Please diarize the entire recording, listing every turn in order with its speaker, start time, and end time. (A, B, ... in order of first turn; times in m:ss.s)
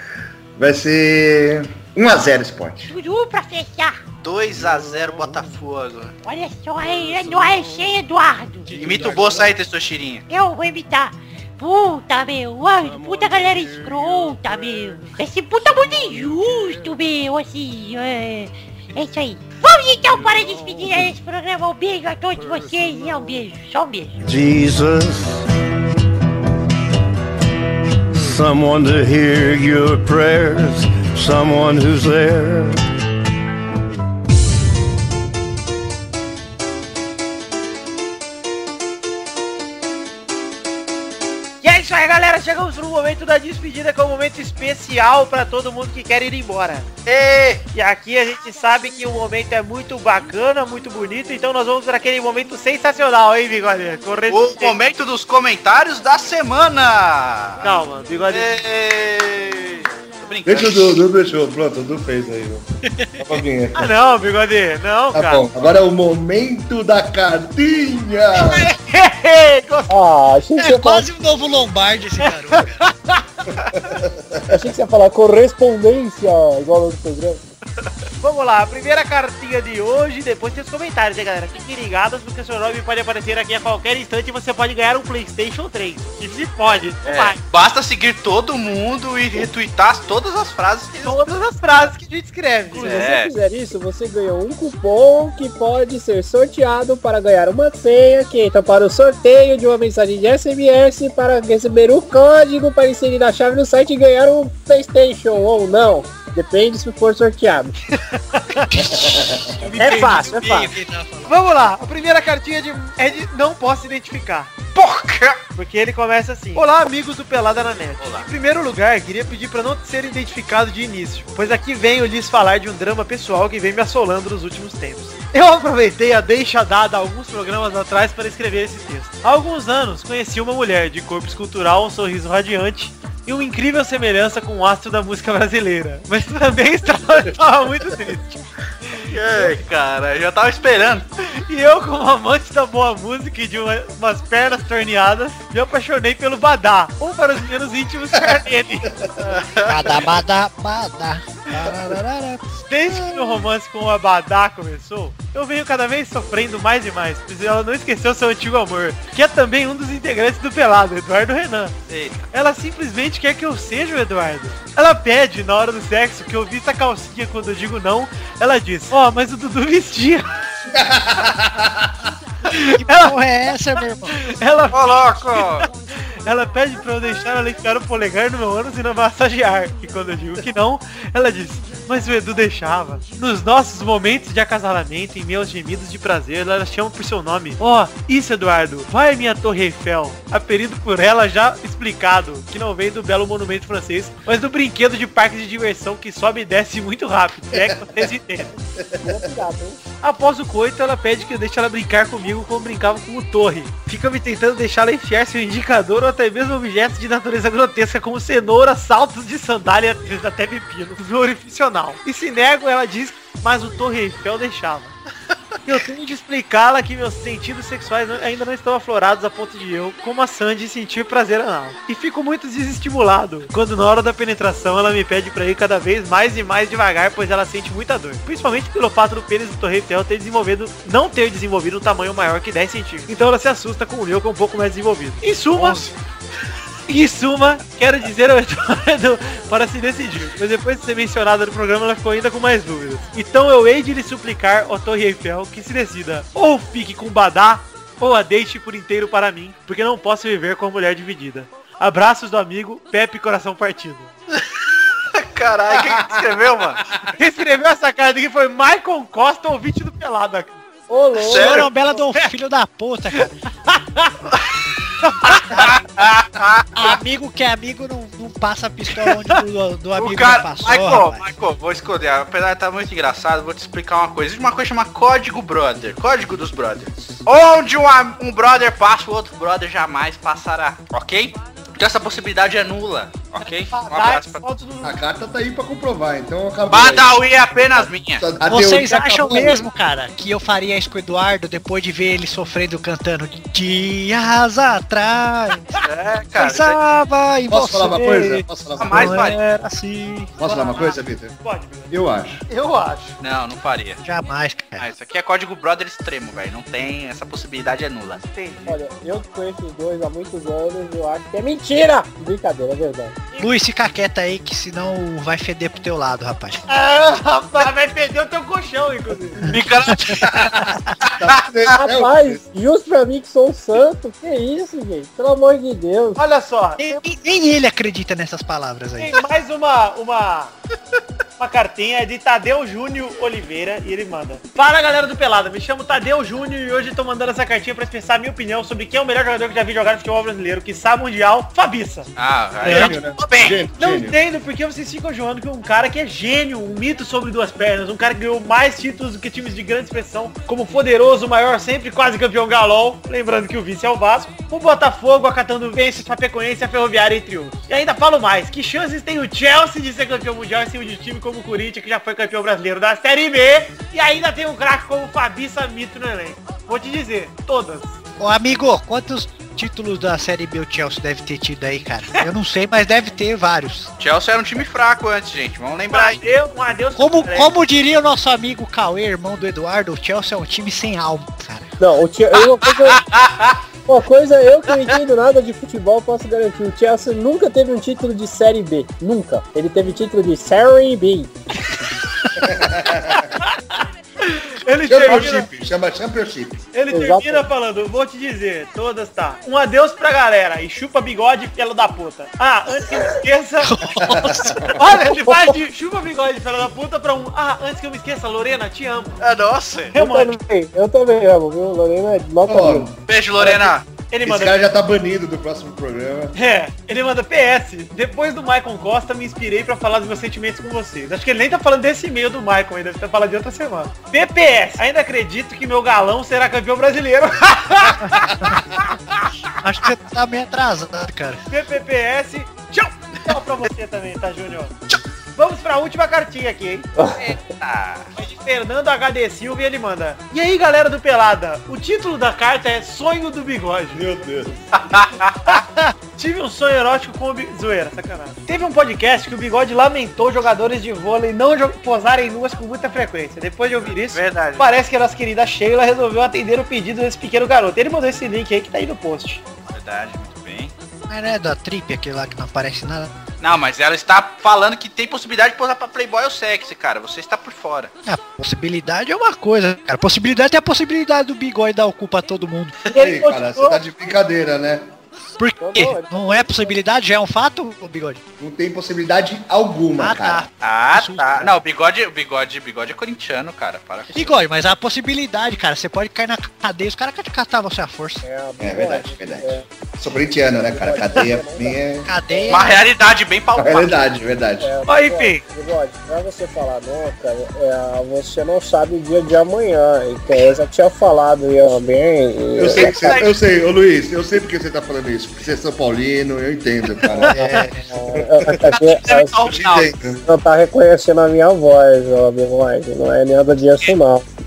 0:00.6-0:02.9 A
0:02.9-0:04.0 B
0:04.2-0:06.1 C
0:06.2-0:08.8 B
0:08.7-0:09.4 D
0:08.7-0:10.2 C
0:10.3-0:24.2 B
0:24.2-0:25.4 E
0:28.1-0:32.8 E
0:41.6-0:46.9 F
0:47.0-0:47.6 C
0:47.7-0:54.8 F
0:54.3-0:57.6 C
0:57.6-0:58.5 F
0:58.3-1:01.0 C
1:00.4-1:02.6 A
1:03.2-1:03.9 A
1:03.7-1:05.4 F
1:05.1-1:08.7 A
1:08.4-1:09.9 F
1:09.9-1:11.1 G
1:10.6-1:12.8 D
1:12.8-1:13.2 F
1:13.8-1:14.5 A
1:14.5-1:17.5 G
1:18.2-1:27.4 F
1:27.0-1:31.2 C
1:31.0-1:33.0 F
1:32.8-1:47.7 G
1:32.8-1:33.3 C
1:48.1-1:48.7 F
1:49.0-1:49.4 A
1:49.6-1:50.6 F
1:49.6-1:51.3 D
1:49.7-1:50.7 G
1:51.2-1:54.5 F
1:54.7-1:55.4 C
1:55.6-2:19.6 F
1:58.0-1:58.3 C
2:19.1-2:21.0 C
2:21.2-2:28.9 F
2:28.9-2:29.1 A
2:29.2-2:30.0 C
2:29.7-2:33.4 D
2:32.7-2:41.7 F
2:41.9-2:42.3 C
2:42.3-2:50.3 F
2:50.7-2:52.0 A
2:52.5-2:53.2 F
2:52.7-2:54.2 D
2:54.1-2:55.7 F
2:54.7-2:55.7 C
2:56.2-3:18.6 F
3:17.5-3:18.1 A
3:18.8-3:19.3 A
3:19.0-3:19.8 G
3:20.0-3:35.0 F
3:35.6-3:55.9 F
3:55.6-3:55.9 C
3:56.9-4:14.1 F
4:15.1-4:16.9 C
4:15.8-4:16.2 A
4:17.2-4:20.6 F
4:20.9-4:21.6 G
4:21.2-4:21.7 C
4:21.2-4:23.3 D
4:22.0-4:22.2 F
4:23.7-4:24.1 F
4:25.0-4:25.7 F
4:25.5-4:27.0 C
4:26.8-4:31.3 D
4:30.0-4:44.4 C
4:43.7-4:45.0 F
4:44.8-4:49.6 A
4:46.7-4:48.2 C
4:48.4-4:55.8 D
4:55.8-4:56.8 C
4:56.4-5:00.4 D
4:57.5-4:59.2 A
4:58.8-4:59.4 C
5:00.4-5:01.3 A
5:00.4-5:01.9 F
5:01.9-5:02.4 A
5:02.5-5:03.2 F
5:03.2-5:04.0 C
5:04.0-5:04.9 D
5:04.8-5:08.2 C
5:08.3-5:08.7 F
5:08.7-5:13.2 G
5:13.4-5:16.6 D
5:16.7-5:19.5 F
5:19.5-5:21.7 C
5:19.9-5:20.3 D
5:21.1-5:22.4 A
5:21.8-5:26.2 G
5:26.2-5:27.0 F
5:26.8-5:29.2 D
5:29.0-5:30.5 F
5:31.4-5:42.1 F
5:42.2-5:43.6 C
5:42.6-5:42.9 F
5:42.6-5:44.2 A
5:43.8-6:08.0 F
6:08.2-6:13.9 D
6:14.0-6:16.2 C
6:15.9-6:17.5 F
6:17.0-6:21.7 D
6:21.8-6:23.0 G
6:22.8-6:23.6 C
6:23.9-6:31.3 G
6:32.4-6:33.2 A
6:33.1-6:35.5 F
6:34.8-6:36.6 A
6:36.7-6:43.9 F
6:36.9-6:37.4 G
6:43.6-6:44.7 D
6:44.0-6:44.7 A
6:44.7-6:49.2 F
6:49.2-6:49.9 C
6:49.9-6:50.4 F
6:49.9-6:52.9 G
6:52.5-6:53.6 A
6:53.1-6:53.8 C
6:54.1-6:54.6 F
6:54.2-6:56.3 A
6:56.3-7:08.4 F
7:08.0-7:08.6 D
7:09.6-7:11.4 D
7:11.5-7:14.7 F
7:15.4-7:16.9 F
7:17.0-7:17.3 G
7:17.3-7:18.1 C
7:18.2-7:24.0 F
7:23.9-7:24.8 A
7:24.8-7:25.6 C
7:25.4-7:39.4 F
7:33.8-7:34.7 C
7:39.7-7:40.7 C
7:41.1-7:43.1 D
7:43.4-7:47.9 C
7:48.0-7:52.8 D
7:52.8-7:53.8 F
7:52.9-7:54.9 A
7:55.4-7:58.2 D
7:55.6-7:56.8 G
7:58.4-8:00.4 A
8:00.0-8:01.5 D
8:00.6-8:04.3 C
8:04.1-8:08.2 D
8:08.2-8:09.7 G
8:08.6-8:12.1 A
8:10.6-8:12.6 G
8:12.0-8:12.8 D
8:12.5-8:13.9 C
8:13.6-8:14.7 A
8:14.6-8:23.1 G
8:14.8-8:15.4 F
8:22.6-8:27.4 A
8:22.9-8:23.3 C
8:27.2-8:27.9 D
8:27.2-8:29.5 G
8:28.7-8:29.9 C
8:29.4-8:30.2 A
8:30.2-8:34.2 G